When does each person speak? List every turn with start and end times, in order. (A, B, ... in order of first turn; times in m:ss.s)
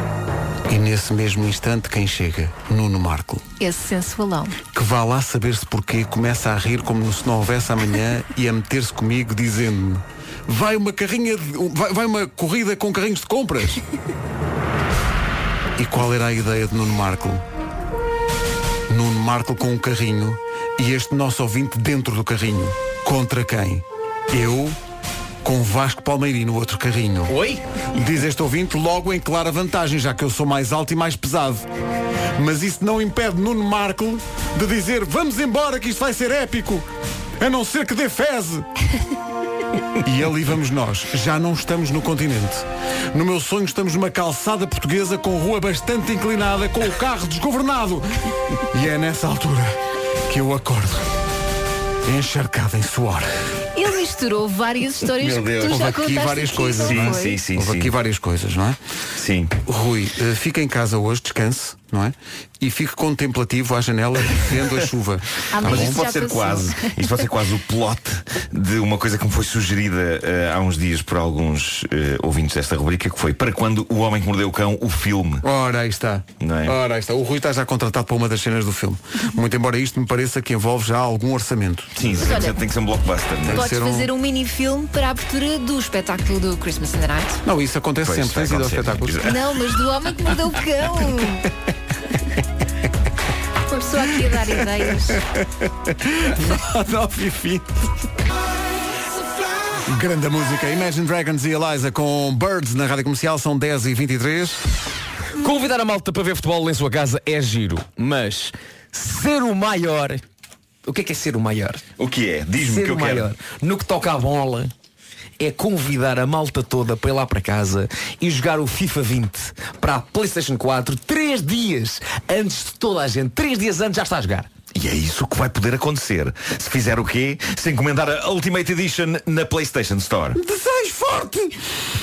0:00.7-0:03.4 A
0:03.6-0:04.6 B
0:04.7-0:13.8 A
0:15.8-0:17.4 A
0:18.9-0:24.8 A
0:25.4-0:27.3 A
0:27.3-0:27.6 C
0:27.9-0:31.6 A
0:32.4-0:36.8 A
0:37.4-0:38.7 A
0:40.0-0:48.1 A
0:48.7-0:49.8 A
0:50.3-0:51.1 A
0:52.0-0:53.3 A
0:53.7-0:57.4 B
0:55.1-0:55.8 D
0:55.6-0:58.8 A
0:56.8-0:57.9 D
0:59.2-0:59.5 D
0:59.6-1:06.0 A
1:05.5-1:07.2 B
1:05.5-1:15.4 D
1:15.4-1:22.1 A
1:16.4-1:16.8 D
1:21.9-1:23.6 D
1:22.0-1:22.6 B
1:23.4-1:24.1 A
1:23.5-1:27.4 B
1:27.4-1:29.2 A
1:28.0-1:29.5 D
1:29.2-1:31.5 B
1:33.7-1:35.2 B
1:35.1-1:37.9 A
1:39.9-1:44.6 A
1:45.4-1:50.2 C
1:50.8-1:51.8 C
1:52.0-1:53.3 D
1:52.6-1:54.7 C
1:55.4-2:04.5 C
2:04.7-2:10.4 D
2:10.3-2:11.6 A